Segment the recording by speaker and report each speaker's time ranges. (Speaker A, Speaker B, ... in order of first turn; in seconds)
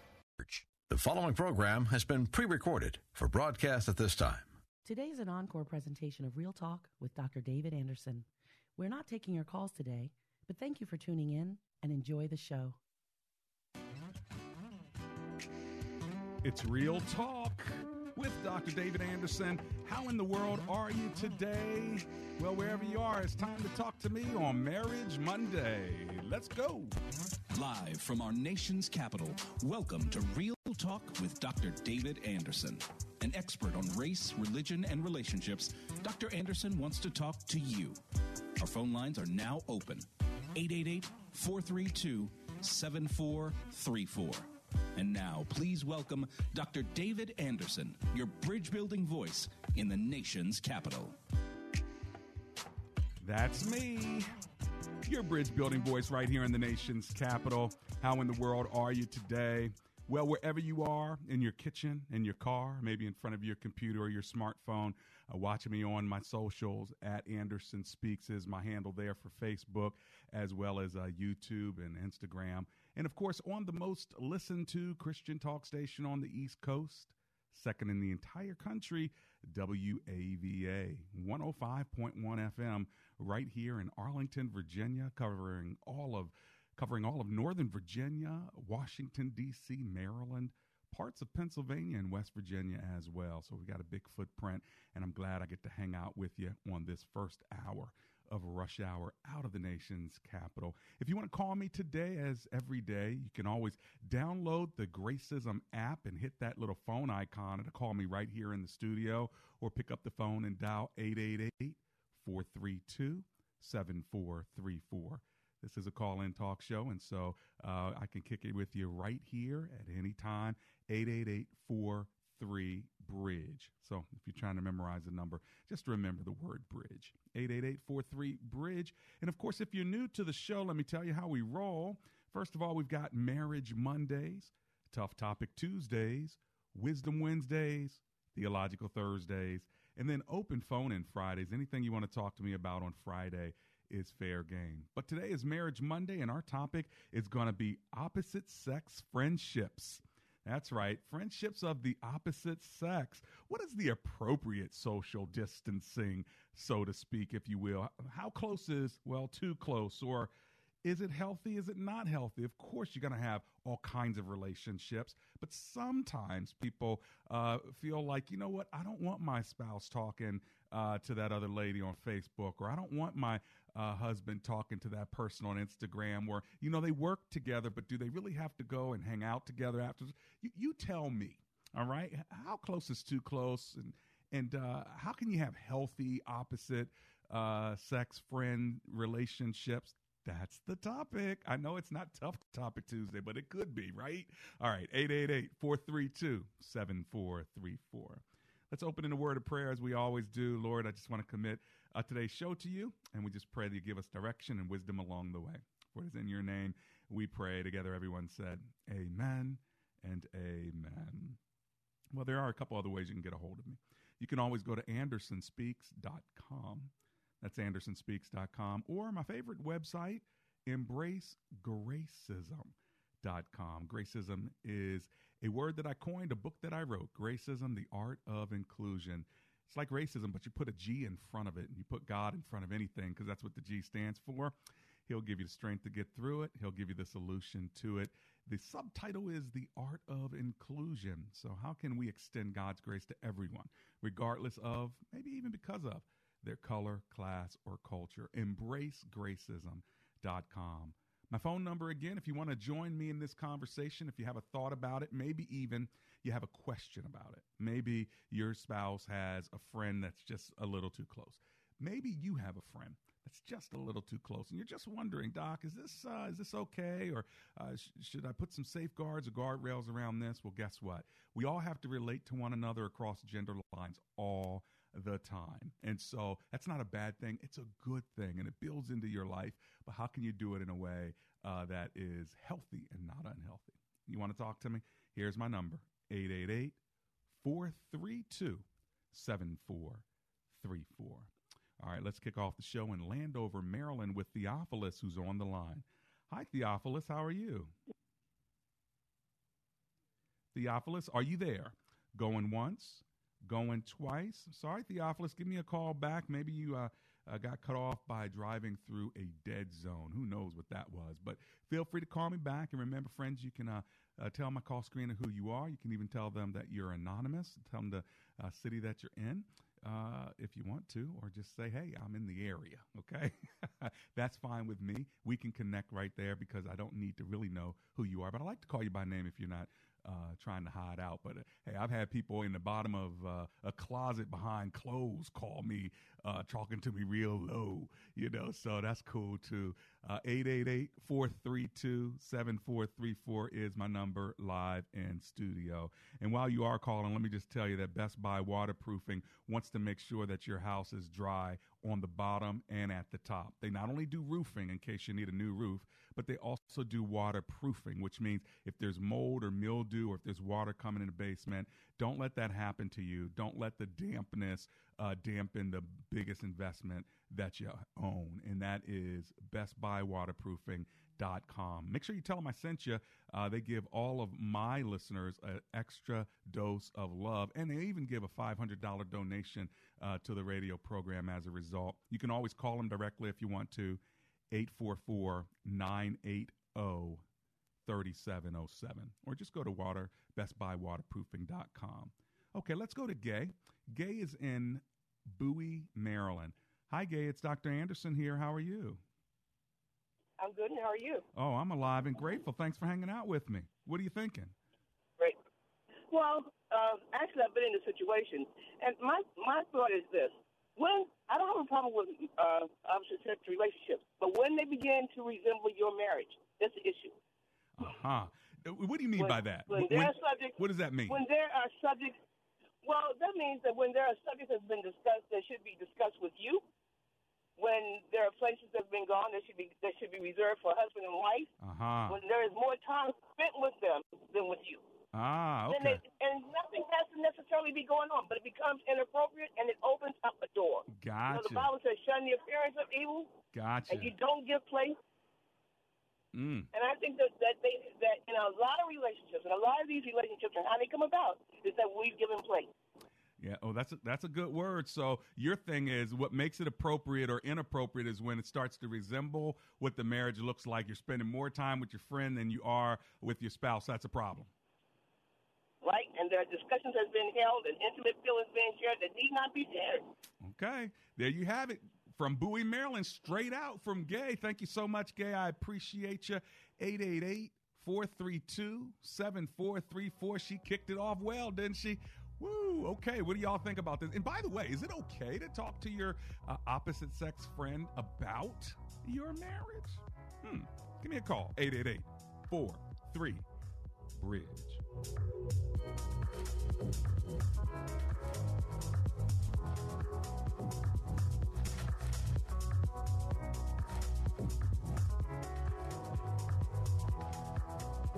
Speaker A: 0.4-4.5
Speaker B: 4.8-12.8
Speaker C: 16.4-26.9, 53.2-54.3, 55.0-160.3, 160.8-211.4, 212.1-234.5, 235.1-286.8, 287.4-297.7, 300.5-387.2, 387.9-399.0, 401.4-404.6, 417.8-421.2, 431.6-432.2, 435.1-436.0, 440.9-441.7, 443.5-444.1, 446.3-446.7, 453.4-464.5, 470.4-493.4, 494.1-494.8
Speaker D: 27.5-38.0, 38.6-51.2
Speaker E: 400.4-401.2, 406.1-417.2, 419.2-420.6, 421.1-422.2, 422.8-426.6, 427.6-431.5, 432.1-434.8, 435.7-443.4, 443.9-445.0, 446.7-452.7, 465.8-470.1